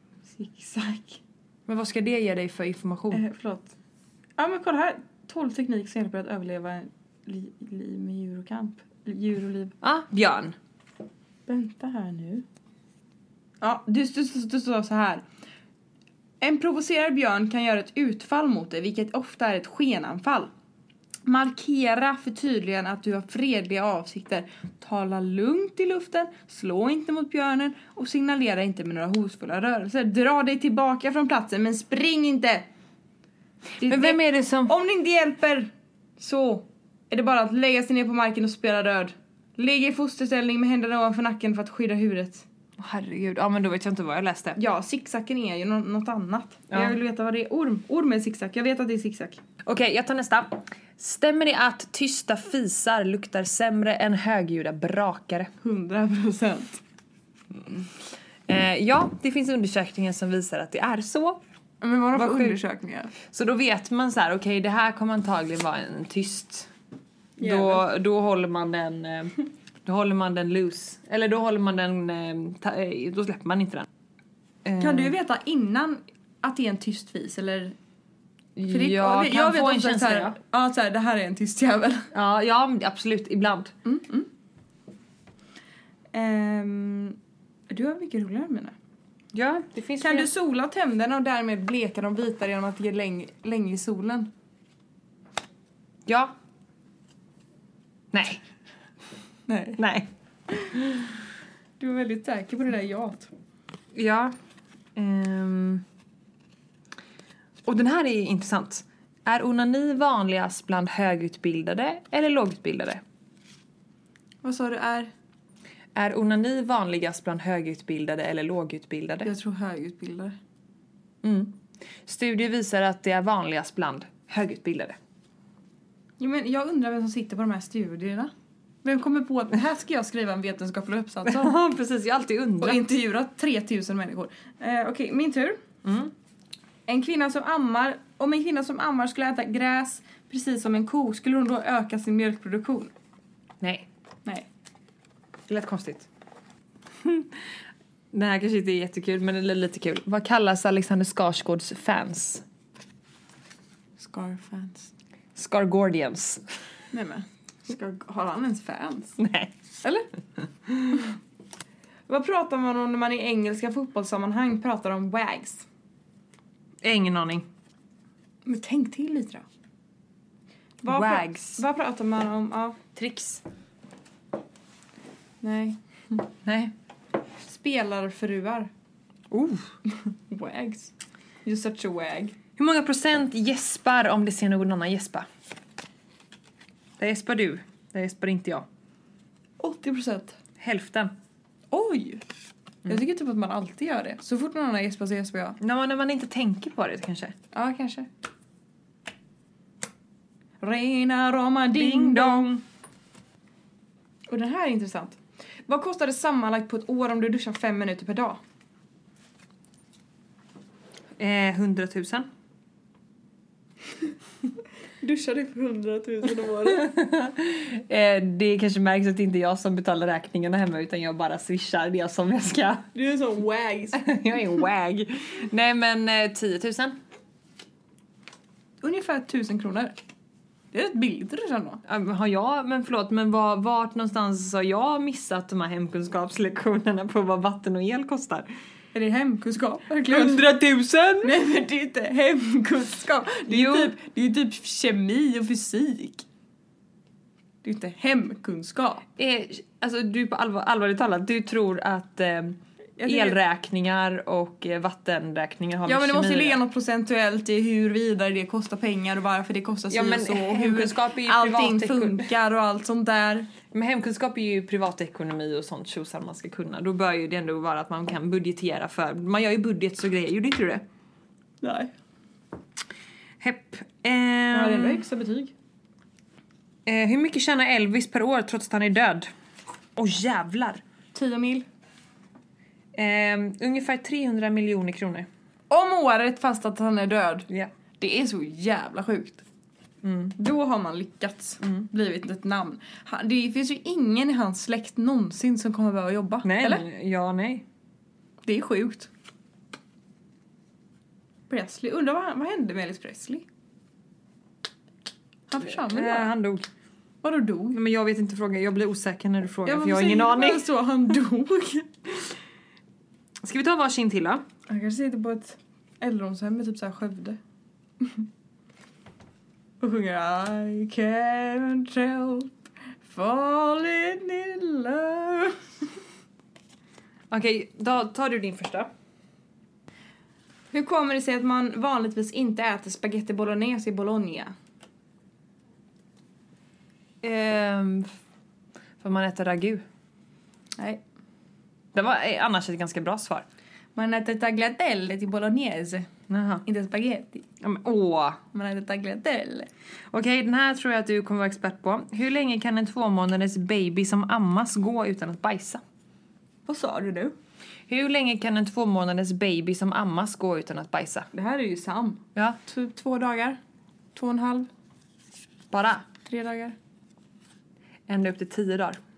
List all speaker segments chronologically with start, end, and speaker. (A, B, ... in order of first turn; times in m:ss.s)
0:00.3-0:01.2 A
0:01.7-0:03.2 B
0:03.1-0:03.7 A
0:04.4-0:09.7 A
0:09.8-0:10.6 B
0:11.5-0:12.4 A
0:13.6-0:15.2 A
0:16.4-0:20.5 A
0:21.3-0:32.7 A
0:33.8-0:42.5 A
0:33.8-0:34.8 B
0:42.8-0:44.6 B
0:44.6-0:49.4 A
0:49.7-0:55.5 B
0:55.6-0:56.8 A
0:58.5-1:01.4 B
1:01.8-1:03.1 A
1:02.1-1:02.6 B
1:03.2-1:06.7 B
1:07.4-1:07.8 A
1:07.4-1:13.9 B
1:14.6-1:15.1 B
1:14.8-1:17.8 A
1:18.6-1:20.4 B
1:18.7-1:22.1 A
1:22.1-1:23.7 B
1:23.8-1:24.3 A
1:26.1-1:27.2 A
1:27.7-1:28.8 A
1:29.3-1:30.3 B
1:30.0-1:34.3 A
1:36.1-1:36.4 B
1:38.1-1:38.4 B
1:39.5-1:39.8 A
1:39.8-1:40.1 B
1:41.8-1:43.3 A
1:43.9-1:44.4 B
1:45.0-1:45.8 B
1:47.6-1:53.0 B
1:54.4-1:55.1 A
1:56.0-1:59.3 B
1:59.2-2:00.4 A
2:01.2-2:05.0 B
2:06.2-2:08.3 A
2:08.8-2:11.6 A
2:11.2-2:12.9 B
2:12.6-2:15.6 A
2:15.8-2:16.1 B
2:16.9-2:22.9 A
2:23.6-2:23.9 B
2:25.5-2:26.1 B
2:27.0-2:27.4 B
2:28.1-2:32.4 B
2:34.0-2:34.9 A
2:35.4-2:36.4 B
2:36.9-2:39.2 A
2:39.2-2:39.5 B
2:42.1-2:45.7 A
2:46.8-2:47.5 B
2:48.4-2:49.4 A
2:50.8-2:52.8 A
2:50.9-2:51.6 B
2:53.0-2:53.4 B
2:55.4-2:56.2 A
2:56.4-2:56.7 B
2:57.4-2:58.7 A
2:59.3-2:59.7 B
3:00.1-3:00.9 A
3:01.4-3:02.3 A
3:02.6-3:05.3 B
3:07.0-3:08.7 B
3:09.6-3:10.4 A
3:10.6-3:11.1 B
3:11.7-3:12.2 A
3:12.9-3:15.6 A
3:15.6-3:17.4 B
3:17.5-3:18.1 A
3:20.6-3:22.5 A
3:21.7-3:22.6 B
3:24.3-3:28.4 A
3:31.2-3:32.3 B
3:35.0-3:36.9 A
3:36.6-3:42.9 B
3:43.0-3:44.1 A
3:44.0-3:47.0 B
3:48.8-3:50.0 A
3:50.7-3:51.8 A
3:51.8-3:58.5 B
3:58.9-4:00.5 A
4:00.1-4:01.3 B
4:01.2-4:06.2 A
4:03.5-4:03.9 B
4:07.6-4:09.0 A
4:09.2-4:16.6 B
4:13.0-4:13.4 A
4:15.9-4:23.5 A
4:19.9-4:22.3 B
4:23.7-4:30.8 B
4:31.6-4:31.9 A
4:33.4-4:35.0 B
4:34.5-4:35.5 A
4:36.9-4:39.3 B
4:40.0-4:40.8 B
4:41.1-4:41.7 A
4:42.9-4:45.3 B
4:45.7-4:47.5 A
4:48.0-4:49.4 A
4:50.0-4:50.4 B
4:50.4-4:56.9 A
4:51.6-4:51.9 B
4:56.4-4:57.6 B
4:58.4-4:59.1 A
5:01.5-5:03.4 A
5:05.5-5:06.3 A
5:05.6-5:06.7 B
5:07.2-5:07.8 A
5:07.7-5:10.7 B
5:09.6-5:11.9 A
5:13.4-5:14.4 B
5:14.7-5:17.4 A
5:19.8-5:22.5 A
5:23.0-5:25.6 A
5:27.3-5:28.9 B
5:30.7-5:34.5 A
5:37.2-5:38.1 B
5:39.0-5:39.8 B
5:41.9-5:43.5 B
5:44.0-5:46.1 A
5:46.3-5:46.6 B
5:46.6-5:47.4 A
5:47.6-5:48.4 B
5:48.5-5:49.7 A
5:50.1-5:55.8 B
5:56.7-5:57.4 A
5:57.9-6:01.3 B
6:01.3-6:03.6 A
6:04.2-6:04.7 A
6:05.7-6:06.1 B
6:06.3-6:06.8 A
6:08.1-6:09.0 B